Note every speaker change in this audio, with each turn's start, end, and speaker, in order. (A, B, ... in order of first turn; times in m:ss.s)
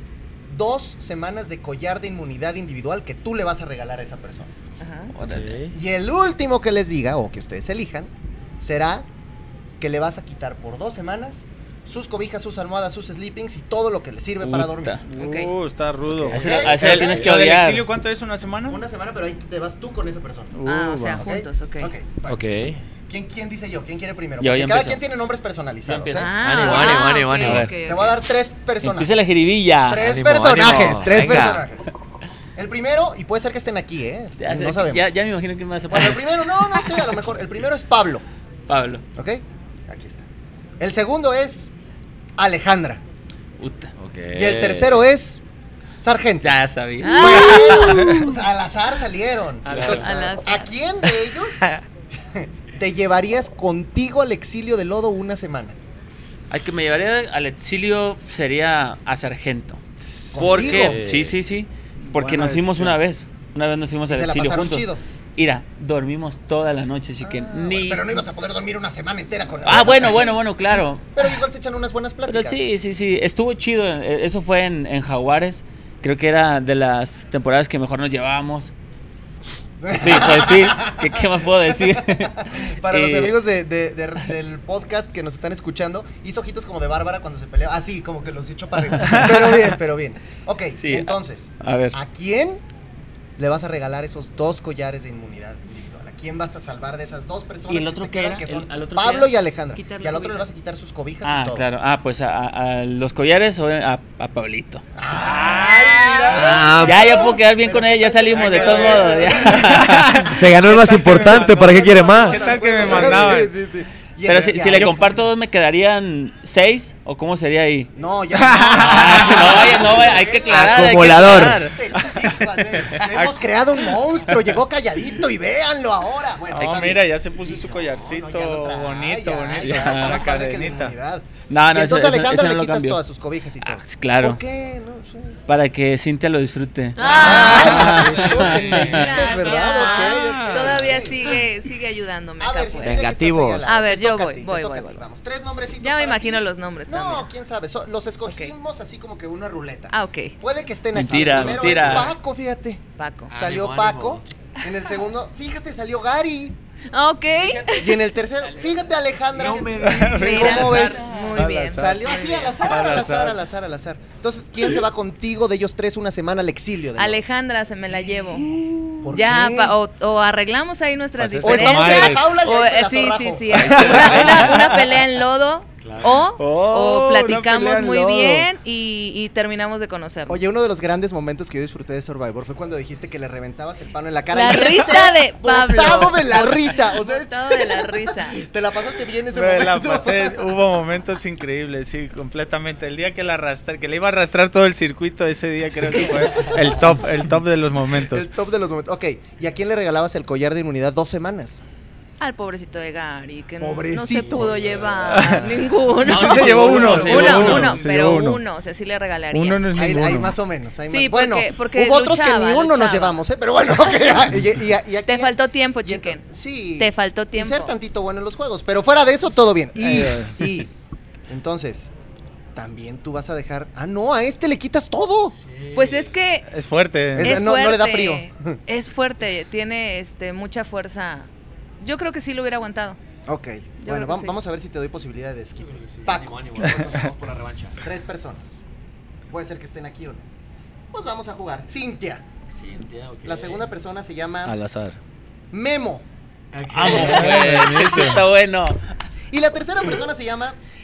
0:00.5-0:04.5 A
0:04.8-0:05.1 B
0:05.1-0:05.6 C
0:05.2-0:05.7 D
0:05.7-0:09.0 A
0:09.8-0:15.0 A
0:14.4-0:15.0 C
0:15.0-0:18.8 E
0:15.2-0:15.5 B
0:16.2-0:17.1 D
0:16.3-0:17.9 C
0:16.3-0:17.3 A
0:18.7-0:20.5 A
0:20.5-0:21.2 E
0:20.6-0:21.9 B
0:21.1-0:22.4 A
0:22.2-0:22.8 D
0:23.1-0:26.3 A
0:24.4-0:25.0 C
0:25.8-0:27.7 C
0:26.1-0:28.2 B
0:26.4-0:27.7 D
0:27.8-0:29.2 A
0:28.8-0:30.1 C
0:29.9-0:31.9 A
0:30.0-0:31.6 D
0:32.6-0:35.1 A
0:34.4-0:37.0 C
0:35.9-0:38.2 A
0:38.7-0:39.0 C
0:39.2-0:40.2 A
0:40.8-0:41.7 A
0:42.4-0:43.0 A
0:43.6-0:43.9 C
0:44.0-0:45.0 D
0:44.3-0:45.4 A
0:46.0-0:51.6 A
0:46.4-0:48.0 C
0:47.0-0:48.4 B
0:49.6-0:50.3 C
0:49.7-0:50.1 D
0:50.0-0:50.7 B
0:52.3-0:55.8 A
0:56.5-0:59.8 C
1:00.3-1:01.0 A
1:00.3-1:01.4 D
1:00.3-1:08.2 C
1:02.1-1:03.0 E
1:04.1-1:05.0 A
1:07.2-1:10.4 A
1:09.6-1:11.1 C
1:11.1-1:12.7 A
1:12.2-1:18.7 C
1:19.8-1:32.6 A
1:19.9-1:23.4 C
1:30.8-1:32.0 C
1:33.4-1:41.7 A
1:37.7-1:39.3 C
1:39.7-1:40.5 B
1:41.2-1:44.8 C
1:44.9-1:50.0 A
1:45.2-1:46.6 E
1:46.3-1:47.3 D
1:46.5-1:50.3 C
1:48.3-1:53.5 E
1:50.2-1:53.4 D
1:50.6-1:55.2 A
1:54.2-1:57.9 C
1:54.7-1:55.1 E
1:57.9-2:15.4 A
1:58.3-1:59.4 E
1:58.8-2:01.8 C
2:00.5-2:01.6 D
2:02.0-2:03.4 E
2:06.5-2:10.9 E
2:09.6-2:10.3 C
2:11.5-2:13.0 C
2:13.6-2:14.4 C
2:15.5-2:19.4 C
2:17.0-2:18.0 B
2:17.0-2:21.4 A
2:17.3-2:21.3 D
2:18.8-2:23.1 B
2:22.4-2:32.8 A
2:22.8-2:23.6 D
2:23.6-2:25.0 B
2:25.8-2:27.3 B
2:28.2-2:28.5 B
2:29.9-2:30.4 B
2:30.9-2:32.1 C
2:31.6-2:31.9 D
2:33.0-2:33.3 B
2:33.3-2:34.2 D
2:33.3-2:36.6 A
2:36.9-2:38.0 B
2:37.4-2:37.8 D
2:37.8-2:41.1 A
2:39.3-2:41.4 D
2:39.8-2:43.4 E
2:40.0-2:42.2 B
2:41.7-2:47.2 A
2:47.0-2:48.5 B
2:48.2-2:49.8 A
2:49.1-3:00.4 B
2:51.2-2:52.3 E
2:51.4-2:54.6 A
2:53.7-2:54.9 E
2:55.8-2:56.2 D
2:56.4-2:58.5 E
3:00.3-3:10.4 A
3:04.3-3:08.4 B
3:09.3-3:18.3 E
3:17.9-3:21.6 A
3:22.2-3:29.7 B
3:23.6-3:25.6 A
3:24.2-3:24.9 D
3:25.0-3:25.5 E
3:26.0-3:27.8 C
3:26.0-3:28.4 E
3:26.2-3:27.6 A
3:29.3-3:30.3 E
3:29.7-3:40.7 A
3:30.9-3:33.2 B
3:35.0-3:36.2 B
3:36.8-3:37.7 B
3:39.8-3:40.6 E
3:41.3-3:41.9 A
3:42.5-3:45.4 A
3:45.4-3:46.1 D
3:45.7-3:46.5 B
3:46.5-3:47.4 E
3:47.1-3:48.6 A
3:47.2-3:51.3 B
3:51.8-3:53.0 B
3:53.3-3:57.1 A
3:53.8-3:54.4 B
3:55.6-3:57.8 D
3:57.8-3:58.6 A
3:59.3-4:00.2 A
4:00.9-4:02.2 A
4:02.5-4:03.7 D
4:03.2-4:04.6 A
4:04.4-4:05.0 E
4:05.5-4:06.0 A
4:06.5-4:07.7 D
4:06.7-4:08.8 C
4:06.9-4:07.8 A
4:06.9-4:08.2 E
4:09.3-4:10.6 A